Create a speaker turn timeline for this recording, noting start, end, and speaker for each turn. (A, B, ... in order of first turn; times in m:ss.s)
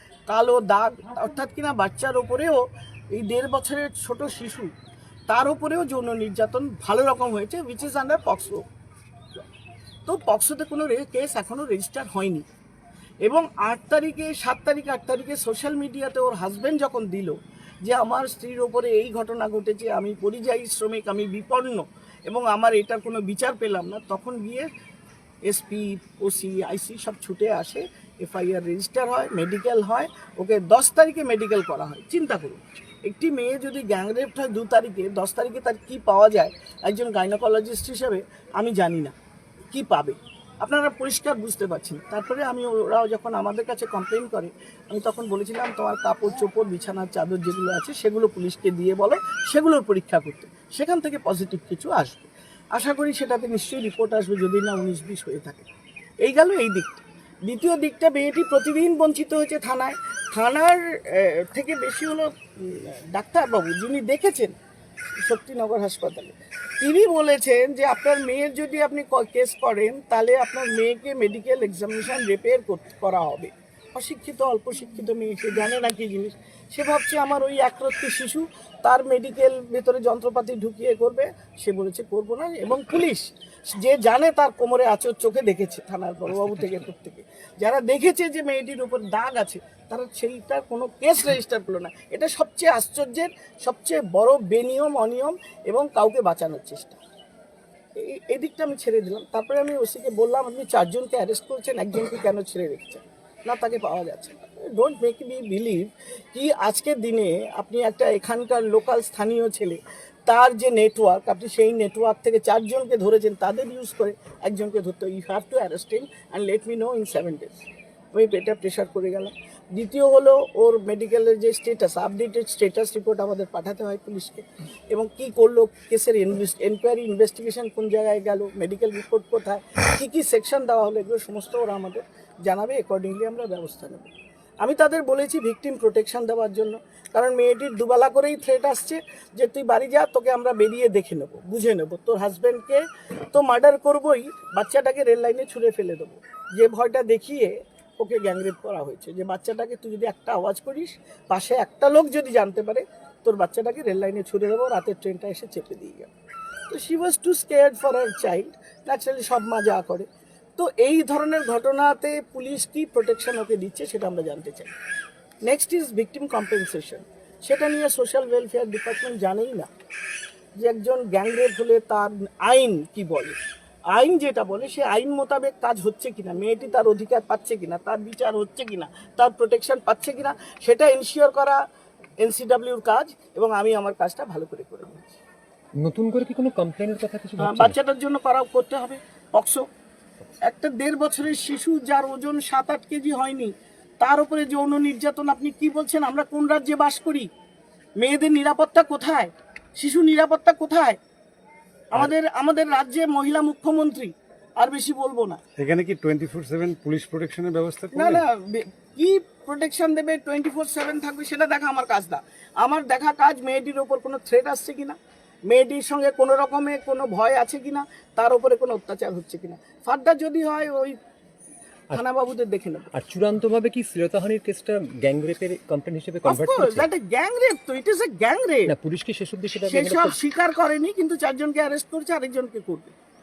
0:00.3-0:04.7 A
0:05.3-0:08.6 A
0:10.1-0:12.4 A
0:13.2-0:24.7 A
0:25.5-0:39.2 A
0:39.7-0:55.7 A
0:56.2-1:04.5 A
1:05.2-1:37.0 A
1:26.4-1:26.8 B
1:38.0-1:57.5 A
1:58.1-2:36.1 A
2:36.7-2:44.7 A
2:45.5-2:49.7 A
2:50.6-2:53.4 A
2:53.9-3:01.6 A
3:02.2-3:05.2 A
3:05.8-3:07.8 B
3:07.4-3:09.6 A
3:10.4-3:17.3 A
3:18.0-3:21.0 A
3:21.9-3:25.4 A
3:25.6-3:28.2 C
3:27.9-3:41.0 A
3:41.9-3:42.9 A
3:42.9-3:46.9 B
3:46.2-3:48.7 A
3:48.7-3:50.2 B
3:49.6-3:53.0 A